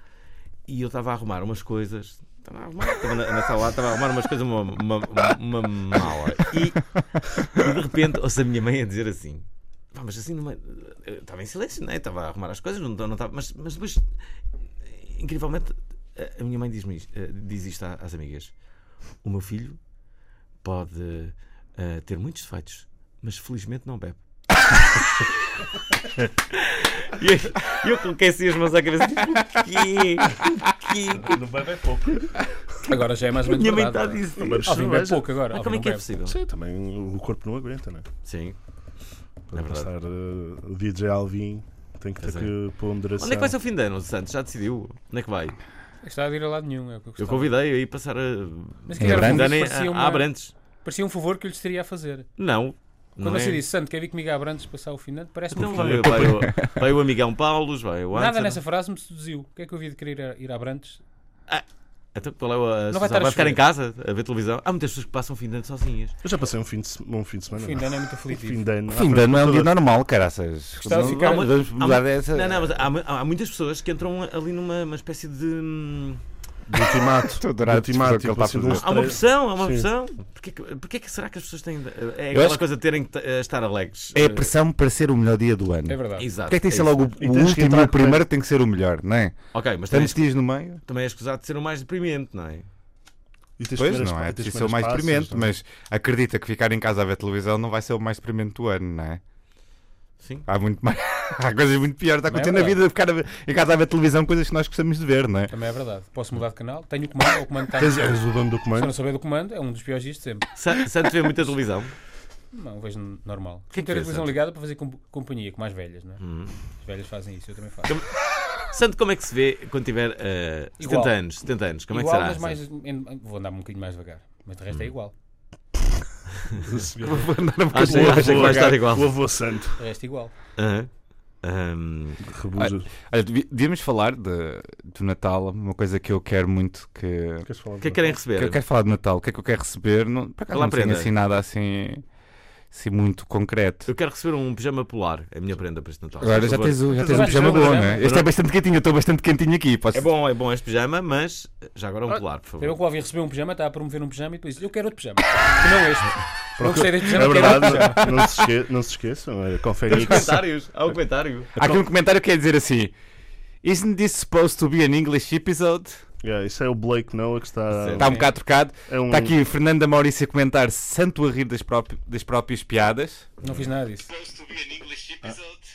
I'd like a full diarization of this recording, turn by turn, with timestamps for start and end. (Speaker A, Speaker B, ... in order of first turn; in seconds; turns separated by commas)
Speaker A: 0.7-14.1, Speaker A: 14.8-18.5, Speaker A: 19.2-19.8, Speaker A: 20.6-24.2, Speaker A: 24.7-25.3, Speaker A: 26.5-31.4, Speaker B: 31.1-32.3, Speaker C: 32.9-36.0, Speaker A: 33.4-34.7, Speaker B: 34.4-35.3, Speaker A: 35.5-36.4, Speaker B: 36.2-38.1, Speaker A: 38.2-38.6, Speaker B: 39.5-43.5, Speaker A: 39.5-39.9, Speaker A: 42.2-42.5, Speaker A: 43.2-45.6, Speaker C: 46.0-47.5, Speaker A: 47.2-50.5, Speaker C: 48.9-50.3, Speaker D: 49.0-49.5, Speaker C: 50.8-52.3, Speaker A: 52.4-53.6, Speaker C: 53.2-56.2, Speaker A: 55.5-58.6, Speaker D: 55.9-56.7, Speaker C: 58.1-61.0, Speaker A: 62.1-66.2, Speaker C: 62.9-63.6, Speaker B: 66.2-69.7, Speaker C: 67.5-68.7, Speaker D: 68.9-72.8, Speaker C: 70.8-71.5, Speaker A: 70.9-76.2, Speaker B: 76.7-79.9, Speaker D: 77.4-79.1, Speaker A: 78.8-84.5, Speaker D: 82.3-82.6, Speaker D: 84.1-89.4, Speaker C: 85.9-86.3, Speaker A: 86.2-87.0, Speaker B: 87.2-88.2, Speaker A: 89.5-90.2, Speaker D: 89.9-90.8, Speaker A: 90.9-92.7, Speaker B: 93.6-95.5, Speaker D: 93.8-99.2, Speaker A: 100.2-100.5, Speaker D: 100.5-105.5, Speaker C: 102.3-102.8, Speaker C: 105.5-108.2, Speaker B: 107.8-108.9, Speaker C: 108.7-110.5, Speaker A: 110.6-111.9, Speaker C: 112.5-116.2, Speaker A: 113.7-114.3, Speaker A: 116.2-116.5, Speaker C: 116.8-118.0, Speaker A: 118.6-122.6, Speaker C: 120.8-121.1, Speaker C: 121.9-125.1, Speaker B: 126.6-129.8, Speaker D: 127.0-128.8, Speaker A: 127.7-129.1, Speaker C: 129.8-130.3, Speaker A: 130.6-130.9, Speaker A: 131.4-132.2, Speaker B: 132.2-132.9, Speaker D: 132.6-137.5, Speaker B: 137.4-138.2, Speaker A: 137.8-138.6, Speaker D: 138.3-142.0, Speaker A: 140.5-141.1, Speaker D: 142.7-143.9, Speaker A: 143.9-146.8, Speaker D: 146.2-150.1, Speaker B: 146.9-148.1, Speaker C: 146.9-148.0, Speaker A: 148.0-148.3, Speaker A: 149.9-152.8, Speaker C: 152.6-158.2, Speaker B: 156.6-160.4, Speaker A: 159.9-161.5, Speaker B: 161.6-161.8, Speaker D: 161.6-162.9, Speaker D: 163.6-166.0, Speaker B: 166.2-168.3, Speaker A: 167.7-168.1, Speaker D: 168.0-173.3, Speaker B: 168.9-169.3, Speaker C: 173.4-174.1, Speaker D: 174.3-175.5